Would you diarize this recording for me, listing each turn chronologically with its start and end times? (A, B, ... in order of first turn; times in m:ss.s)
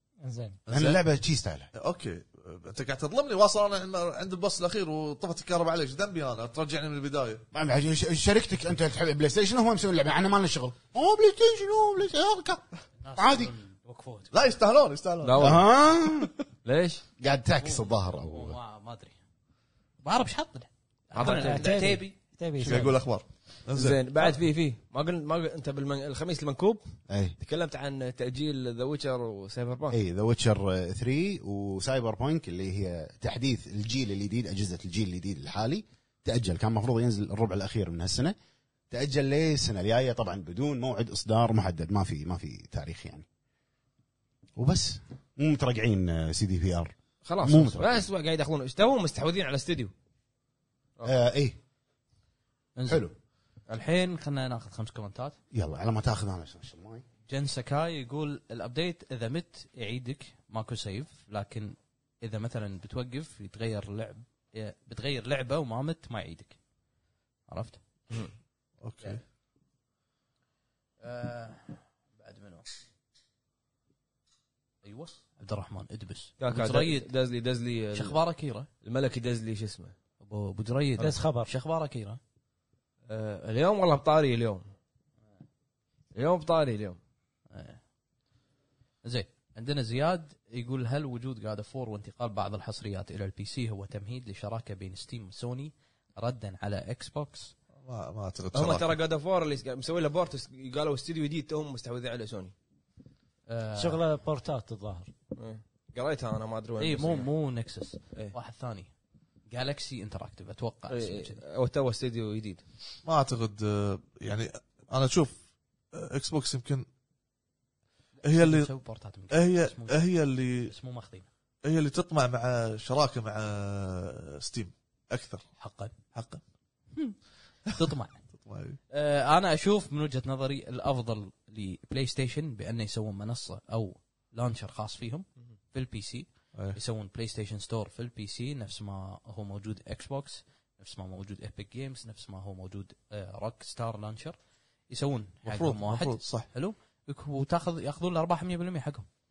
0:00.2-0:00.6 A
0:00.7-0:01.0 B
0:00.7-0:01.7 C
0:01.7-0:07.4 B
0:07.5-0:12.6 C
0:13.0-0:14.3 D
0:13.2-0:13.5 C
0:14.3-0:15.6 B
0:15.2-0:15.6 E
0:15.4-0:16.3 C
0:16.6-0:17.0 E
0:17.2-0:18.6 C
0:17.6-0:19.2 D
0:20.0-0:22.1 D
0:21.1-0:22.0 E
0:21.2-0:23.0 A
0:22.6-0:24.0 B
0:23.7-0:26.8 E
0:27.1-0:27.4 C
0:27.4-0:30.0 E
0:29.9-0:38.4 C
0:38.9-0:43.3 C
0:44.6-0:48.1 C
0:47.2-0:49.9 E
0:51.0-0:51.6 C
0:52.7-0:53.1 D
0:52.9-0:53.1 C
0:53.7-0:55.4 D
0:55.5-0:57.0 C
0:57.3-1:06.6 D
1:07.5-1:07.8 D
1:08.8-1:09.2 B
1:11.0-1:12.7 D
1:14.8-1:17.1 D
1:16.4-1:18.2 E
1:17.9-1:18.7 D
1:18.8-1:19.9 E
1:20.2-1:22.2 D
1:21.0-1:21.5 A
1:23.1-1:24.7 E
1:26.1-1:27.0 E
1:27.5-1:27.8 D
1:29.0-1:37.5 D
1:37.8-1:38.9 B
1:38.5-1:42.5 E
1:43.5-1:44.0 D
1:43.8-1:45.1 A
1:45.4-1:47.3 E
1:46.8-1:48.9 D
1:49.5-1:51.4 D
1:50.9-1:52.6 E
1:53.0-1:55.4 B
1:55.9-1:56.9 B
1:58.2-2:00.0 D
1:58.3-1:58.7 B
1:59.3-2:00.7 B
2:00.6-2:01.3 D
2:01.6-2:05.4 B
2:05.6-2:05.9 D
2:06.1-2:06.4 B
2:07.7-2:08.2 D
2:08.4-2:08.8 B
2:08.9-2:24.4 D
2:24.9-2:29.1 D
2:25.4-2:26.5 B